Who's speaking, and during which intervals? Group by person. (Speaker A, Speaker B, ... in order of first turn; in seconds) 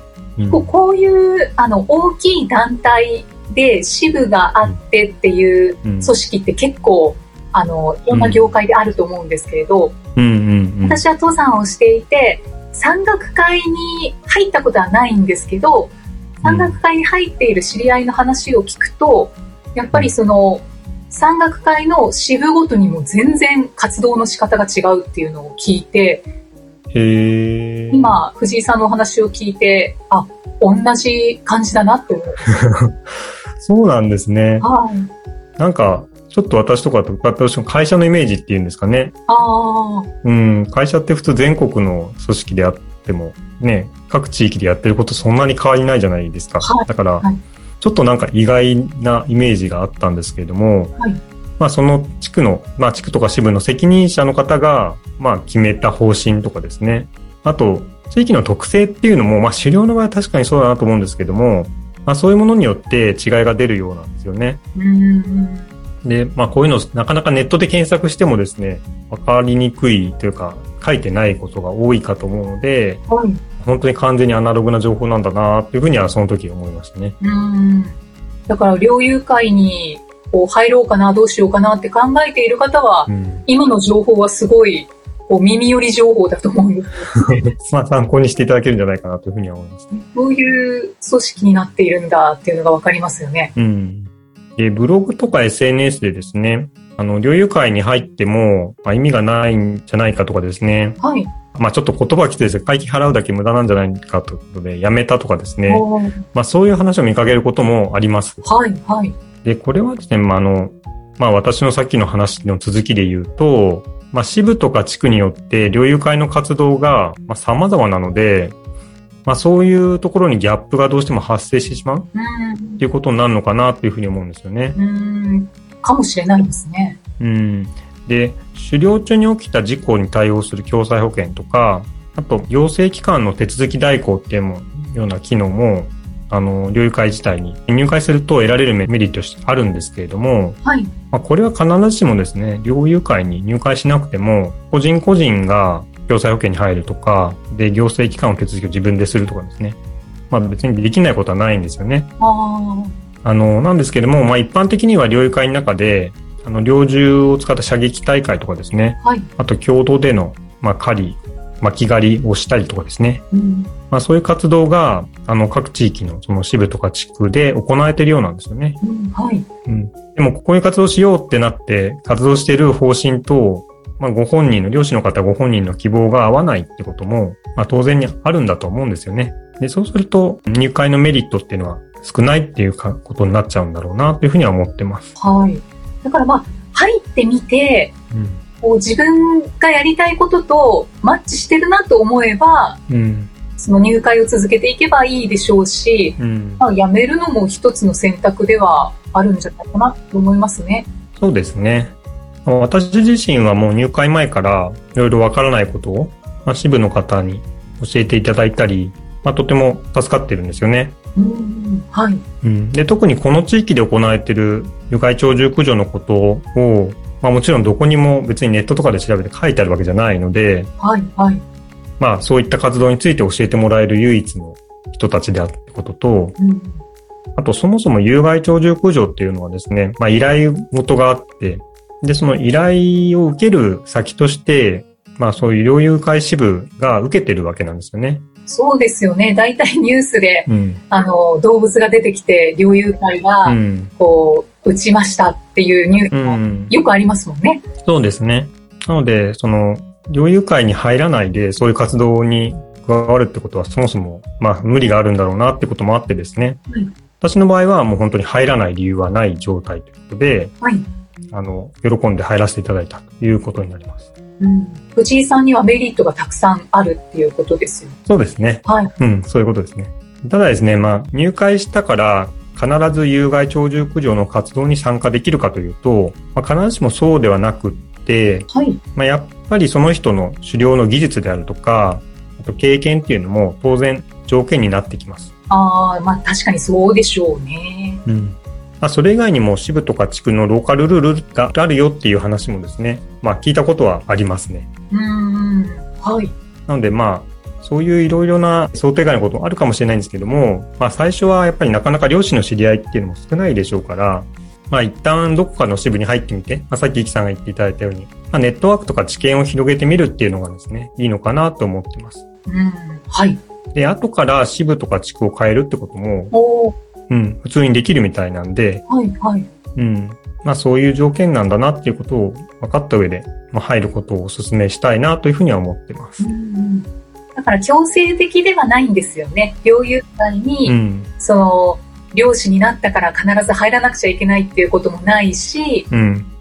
Speaker A: 0.4-0.7, 5.8-6.1, 8.1-8.4, 10.2-11.0, 16.4-16.8, 26.9-28.2, 32.5-32.9, 33.6-34.7, 35.6-39.1, 40.2-47.2, 47.8-50.9, 51.6-64.6, 66.0-73.0, 73.6-77.2, 83.1-83.5, 87.1-89.9, 93.5-101.0, 101.5-108.4, 109.4-118.5, 119.2-122.1, 122.8-124.8, 127.2-140.6, 141.1-149.8, 150.3-152.1, 153.2-163.2, 163.9-168.8, 169.7-185.1, 188.1-188.4, 192.9-193.3, 196.2-196.6, 201.2-210.9, 212.4-220.7, 222.0-226.4, 227.4-238.2, 240.5-240.8, 243.4-243.9, 246.1-246.7, 247.8-256.6, 257.2-260.5, 261.3-264.1, 268.1-285.3, 288.1-294.7, 296.7-312.2, 313.7-316.3, 317.1-318.8, 319.8-326.2, 330.6-331.1, 335.9-336.3
Speaker B: 0.5-9.9, 10.8-26.2, 27.9-32.4, 34.6-35.1, 39.3-40.1, 46.6-47.4, 64.7-65.7, 73.1-73.4, 77.2-78.0, 78.5-87.5, 89.9-93.5, 101.0-101.3, 105.7-106.2, 108.4-109.2, 122.1-122.8, 124.8-127.0, 140.6-140.9, 152.2-152.9, 159.0-159.3, 163.3-163.7, 168.8-169.4, 185.2-187.9, 188.6-192.8, 193.6-200.9, 211.2-212.2, 220.8-221.4, 226.4-226.8, 238.5-247.6, 264.4-267.9, 268.6-268.9, 278.5-278.8, 285.5-288.0, 294.9-296.3, 312.5-313.4, 316.3-316.7, 318.9-319.5, 326.2-335.9